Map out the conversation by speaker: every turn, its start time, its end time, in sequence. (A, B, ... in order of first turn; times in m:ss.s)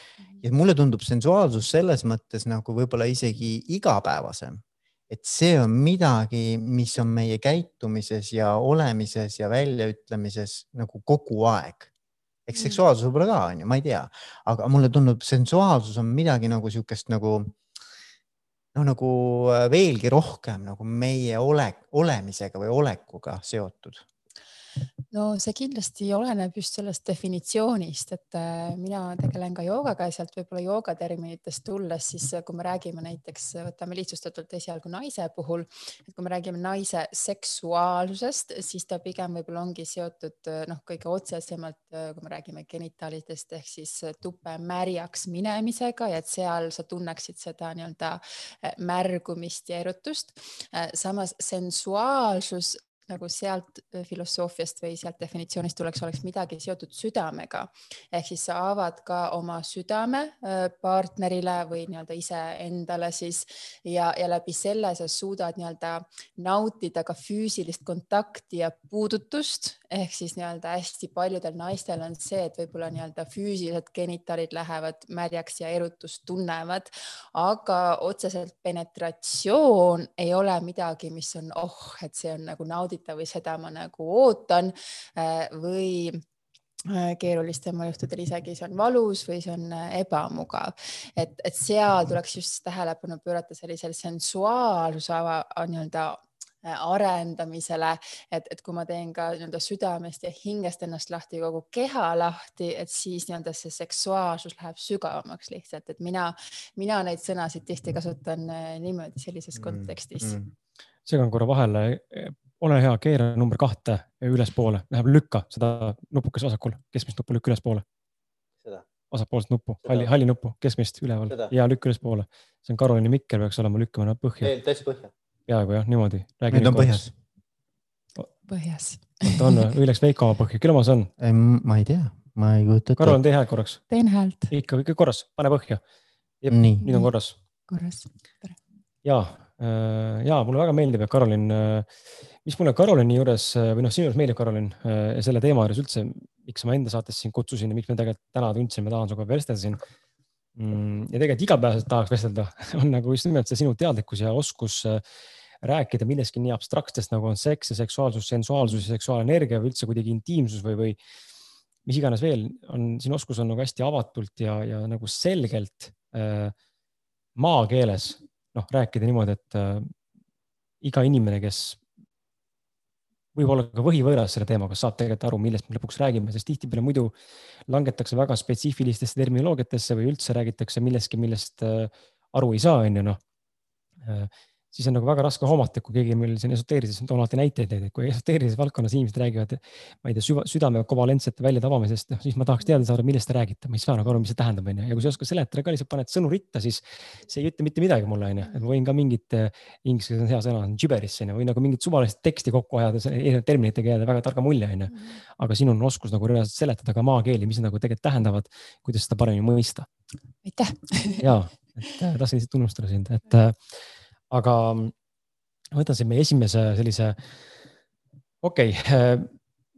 0:00.4-0:11.9 A
0:12.5-0:17.6 A
0:12.6-0:12.8 B
0:18.7-0:24.0 A
0:25.1-1:26.2 B
1:26.9-1:50.4 B
1:49.6-1:50.5 A
1:51.0-1:57.8 C
1:59.1-2:04.5 C
1:59.8-2:00.1 A
2:04.4-2:05.1 A
2:05.5-2:07.0 C
2:06.5-2:07.1 A
2:08.5-2:09.6 B
2:09.3-2:11.1 C
2:11.2-2:13.2 A
2:13.0-2:13.8 C
2:13.9-2:14.5 B
2:14.5-2:15.8 C
2:16.4-2:17.3 C
2:16.5-2:16.8 A
2:16.8-2:17.1 B
2:17.7-2:18.6 B
2:19.0-2:21.9 C
2:22.4-2:29.8 C
2:30.6-2:35.0 C
2:35.6-2:41.0 C
2:41.8-2:46.5 C
2:47.4-2:49.9 C
2:50.8-2:51.8 C
2:53.3-2:57.1 C
2:57.7-3:03.2 C
3:04.0-3:29.9 C
3:30.4-3:31.3 B
3:31.2-3:33.8 C
3:34.3-3:34.9 C
3:35.7-3:37.2 C
3:38.4-3:39.3 C